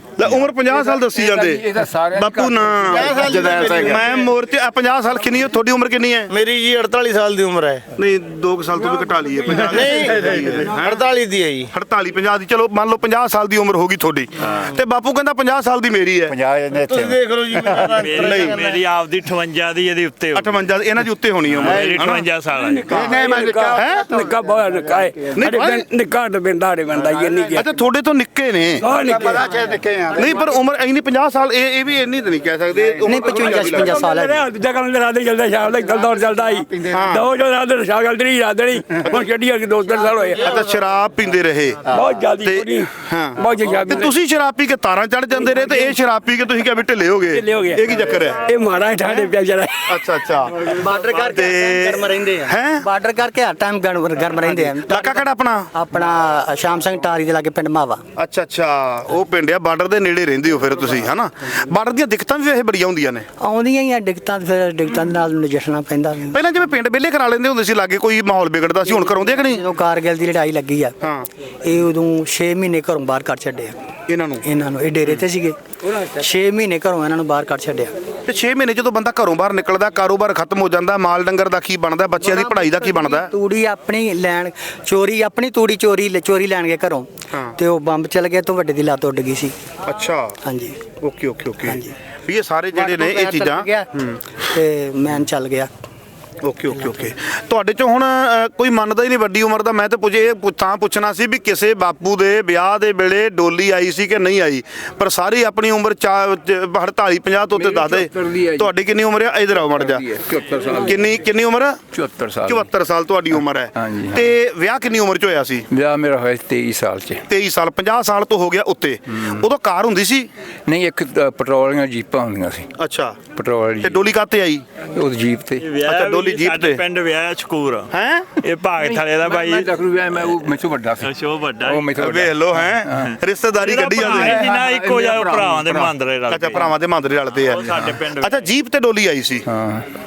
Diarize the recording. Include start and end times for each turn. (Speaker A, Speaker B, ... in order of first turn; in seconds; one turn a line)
Speaker A: 0.2-6.3
Speaker B: 1.0-3.8
Speaker C: 3.0-4.0
Speaker D: 3.2-4.0
Speaker C: 6.3-7.9
Speaker A: 8.0-11.1
Speaker C: 9.7-11.7
Speaker A: 11.7-16.4
Speaker D: 16.3-18.0
Speaker C: 16.8-18.4
Speaker E: 17.9-20.6
Speaker A: 18.1-18.7
Speaker A: 20.4-22.2
Speaker E: 21.5-23.0
Speaker F: 22.6-27.7
Speaker A: 23.0-24.1
Speaker D: 23.0-23.7
Speaker A: 25.4-25.8
Speaker A: 27.5-28.8
Speaker F: 28.8-29.6
Speaker D: 29.5-30.1
Speaker A: 30.1-34.0
Speaker G: 33.0-34.4
Speaker F: 33.6-40.5
Speaker A: 36.9-37.3
Speaker A: 40.4-41.8
Speaker F: 41.9-44.1
Speaker A: 42.4-48.4
Speaker F: 47.3-49.9
Speaker A: 49.9-52.8
Speaker G: 50.7-58.0
Speaker A: 54.8-55.7
Speaker A: 58.2-63.3
Speaker G: 63.4-66.4
Speaker A: 66.3-69.6
Speaker G: 69.3-71.0
Speaker A: 71.0-71.3
Speaker G: 71.7-73.8
Speaker A: 74.1-74.4
Speaker G: 74.4-77.9
Speaker A: 78.3-83.3
Speaker G: 82.2-89.5
Speaker A: 89.8-90.4
Speaker G: 90.4-90.8
Speaker A: 91.0-94.4
Speaker G: 91.7-91.9
Speaker G: 92.7-93.9
Speaker G: 94.5-95.7
Speaker A: 96.4-110.0
Speaker B: 107.5-108.7
Speaker B: 109.7-111.2
Speaker A: 110.8-111.8
Speaker B: 111.9-112.7
Speaker A: 112.4-115.7
Speaker B: 113.8-114.3
Speaker B: 115.7-117.2
Speaker A: 117.3-120.3
Speaker B: 120.7-122.7
Speaker A: 122.8-123.2
Speaker B: 123.3-124.0
Speaker A: 123.8-124.8
Speaker B: 124.8-125.7
Speaker E: 125.6-129.7
Speaker A: 125.9-126.8
Speaker A: 127.9-128.3
Speaker B: 129.2-131.1
Speaker E: 131.0-131.9
Speaker B: 131.6-133.1
Speaker A: 132.0-134.5
Speaker E: 133.6-136.8
Speaker B: 134.2-135.8
Speaker A: 136.3-139.5
Speaker E: 137.4-138.3
Speaker B: 139.5-139.8